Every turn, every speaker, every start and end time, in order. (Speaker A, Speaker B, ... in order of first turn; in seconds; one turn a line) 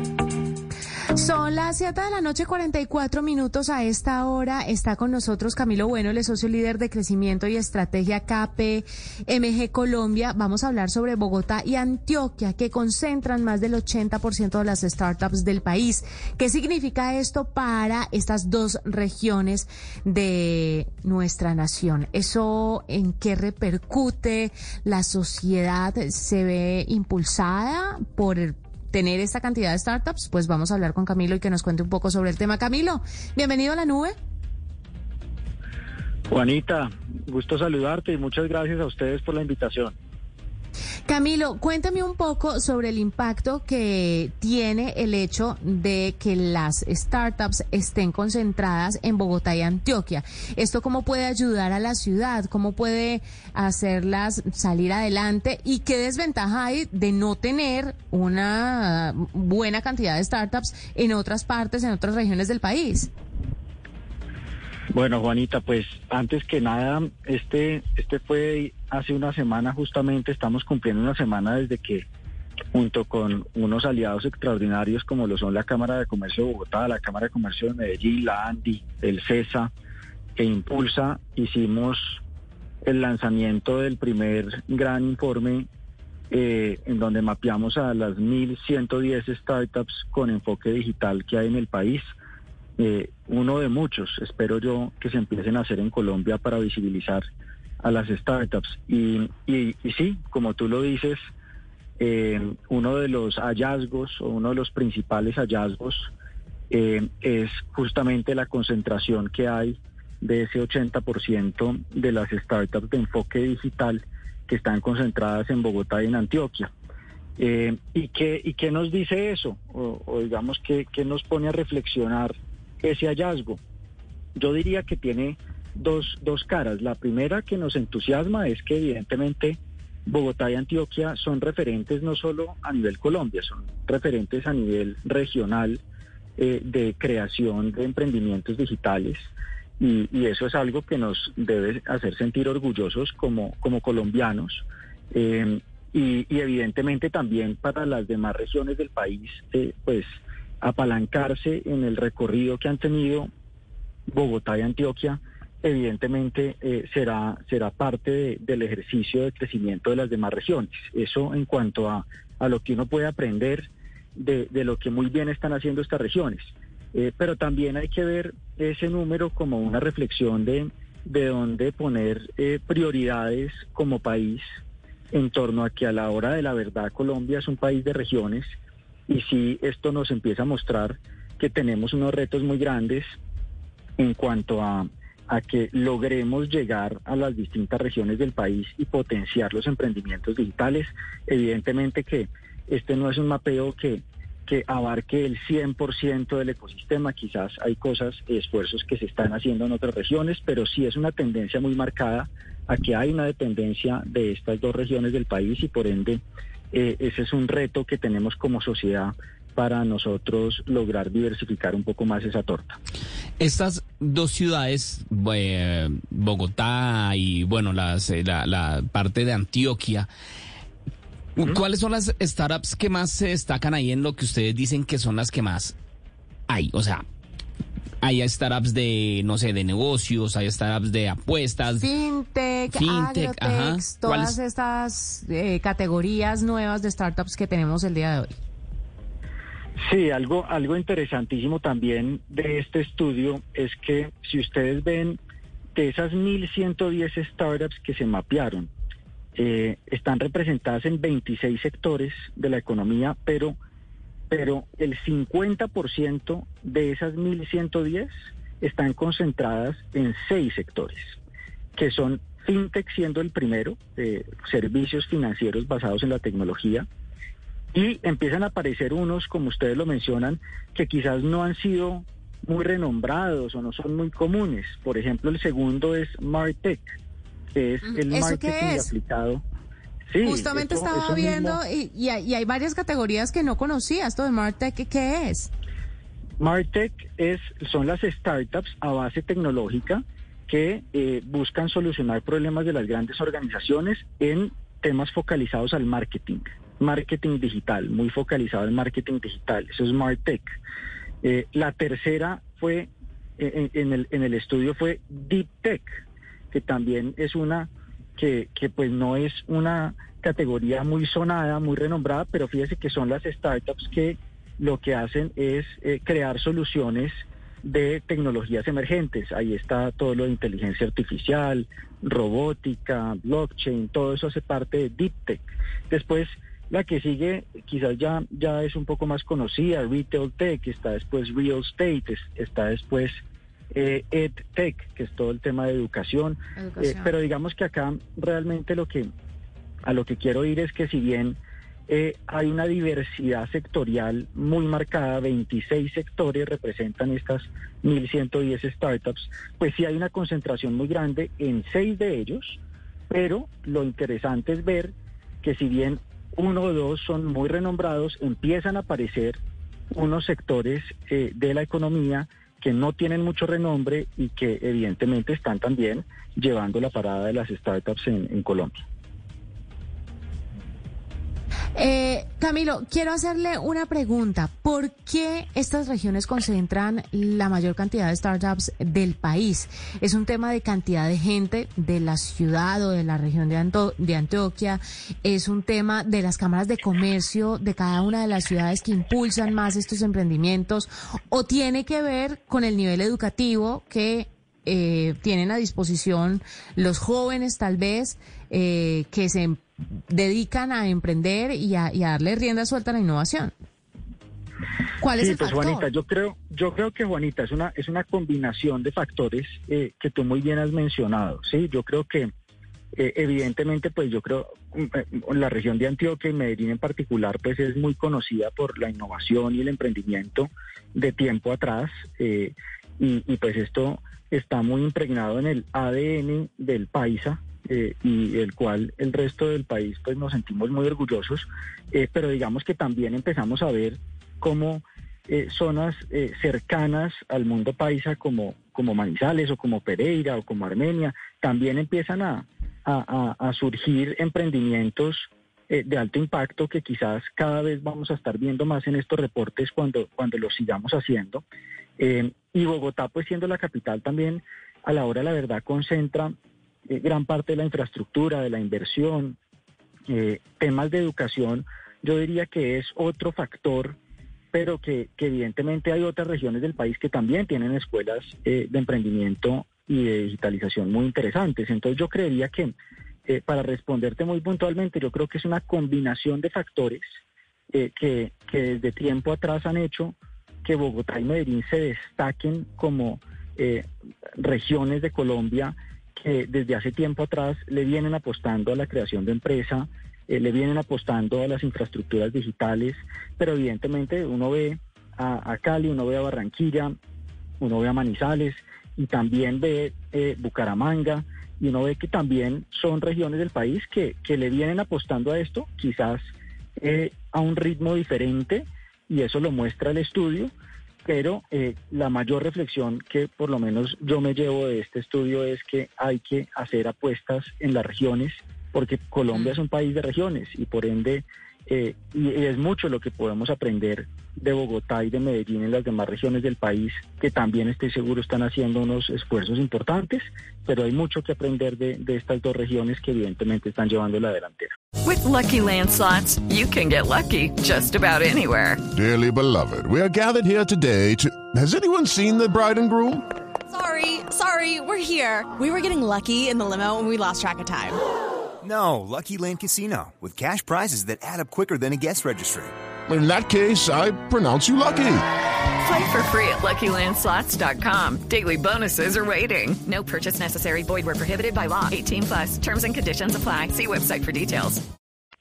Speaker A: 1.1-34.1
Speaker B: 36.3-40.0
Speaker A: 41.1-63.1
Speaker B: 64.9-72.0
Speaker B: 72.7-79.7
Speaker B: 80.4-82.2
Speaker B: 82.8-85.7
Speaker B: 86.3-92.0
Speaker B: 92.8-97.2
Speaker B: 97.8-101.2
Speaker B: 102.0-106.1
Speaker B: 106.7-116.7
Speaker B: 117.4-123.6
Speaker B: 124.3-135.8
Speaker B: 136.4-153.3
Speaker B: 154.1-174.4
Speaker B: 175.1-178.5
Speaker B: 179.1-183.1
Speaker B: 184.0-212.8
Speaker C: 213.4-220.1
Speaker C: 221.3-225.7
Speaker C: 226.5-227.1
Speaker C: 228.0-231.9
Speaker A: 231.7-238.3
Speaker C: 232.7-234.4
Speaker B: 239.8-245.2
Speaker B: 245.7-248.7
Speaker B: 249.3-253.6
Speaker B: 254.3-261.2
Speaker B: 261.8-266.9
Speaker B: 267.7-276.9
Speaker B: 277.5-279.4
Speaker A: 277.9-278.9
Speaker B: 280.1-281.6
Speaker A: 280.2-285.5
Speaker B: 286.4-300.6
Speaker B: 301.2-333.2
Speaker B: 333.7-339.1
Speaker A: 336.6-337.1
Speaker B: 339.8-359.4
Speaker B: 359.9-368.8
Speaker A: 371.8-403.5
Speaker A: 405.0-405.8
Speaker B: 405.2-412.3
Speaker B: 412.9-451.4
Speaker B: 452.0-456.3
Speaker B: 456.9-459.4
Speaker B: 460.1-464.0
Speaker B: 464.5-472.7
Speaker B: 473.3-477.1
Speaker B: 477.7-483.8
Speaker B: 484.4-496.9
Speaker B: 497.6-506.2
Speaker B: 506.8-510.5
Speaker B: 511.0-534.7
Speaker D: 535.0-538.8
Speaker E: 538.9-543.2
Speaker F: 543.7-548.0
Speaker G: 548.6-552.7
Speaker E: 553.1-555.2
Speaker D: 555.8-564.8